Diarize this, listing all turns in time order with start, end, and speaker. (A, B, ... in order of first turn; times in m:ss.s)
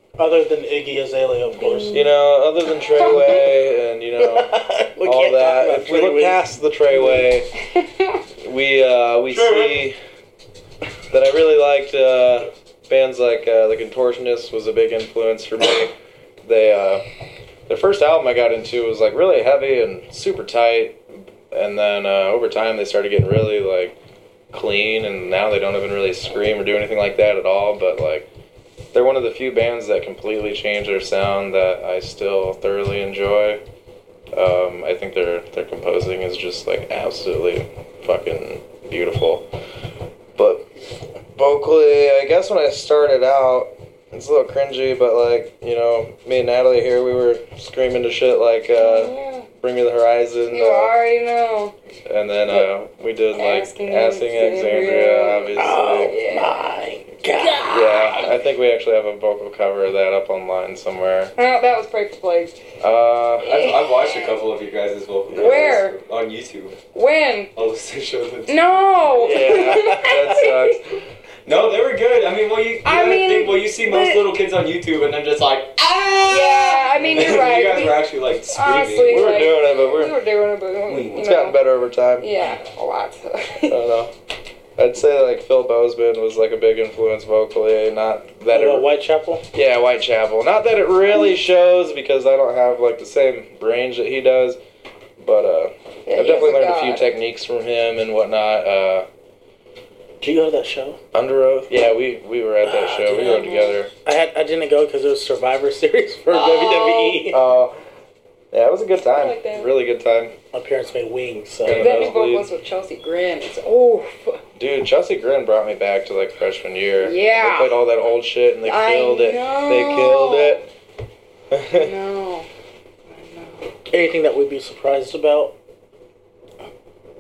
0:00.2-0:02.0 A
0:01.5-0:02.1 B
0:01.9-0:07.5 C
0:04.2-0:07.3 A
0:08.4-0:10.0 C
0:09.3-0:09.9 D
0:11.1-0:15.9 C
0:16.4-0:17.0 C
0:17.7-0:24.0 C
0:24.5-0:28.3 C
0:28.9-0:33.6 C
0:34.3-0:39.5 C
0:40.4-0:40.7 C
0:41.4-0:50.9 C
0:48.8-0:49.5 B
0:50.5-0:51.7 B
0:52.1-0:56.2 C
0:53.3-0:56.7 B
0:55.6-0:58.1 A
0:57.4-0:58.3 B
0:57.6-1:01.3 C
1:01.4-1:02.6 B
1:02.8-1:03.7 C
1:03.4-1:04.4 B
1:03.4-1:06.8 D
1:05.3-1:06.0 B
1:05.3-1:05.8 C
1:06.9-1:07.5 B
1:07.6-1:08.6 D
1:08.5-1:10.8 B
1:09.2-1:11.0 C
1:09.6-1:10.0 A
1:11.5-1:19.5 D
1:12.8-1:14.3 B
1:16.2-1:21.6 B
1:19.1-1:20.2 C
1:20.9-1:21.2 D
1:21.2-1:22.3 C
1:22.2-1:23.8 B
1:23.7-1:24.1 C
1:24.8-1:28.9 C
1:28.5-1:29.4 A
1:29.5-1:34.6 C
1:35.2-1:39.1 C
1:36.1-1:37.1 B
1:40.2-1:41.0 A
1:41.1-1:43.9 C
1:42.7-1:43.5 A
1:43.1-1:43.8 B
1:44.0-1:47.4 A
1:46.3-1:47.3 B
1:47.3-1:47.8 C
1:48.5-1:50.4 C
1:49.1-1:49.8 B
1:50.5-1:52.1 A
1:51.6-1:52.5 C
1:51.7-1:54.4 B
1:54.6-2:00.7 C
1:57.0-1:57.8 B
1:58.6-2:00.6 B
2:01.5-2:01.9 C
2:01.7-2:02.5 B
2:03.1-2:03.7 B
2:03.9-2:05.6 A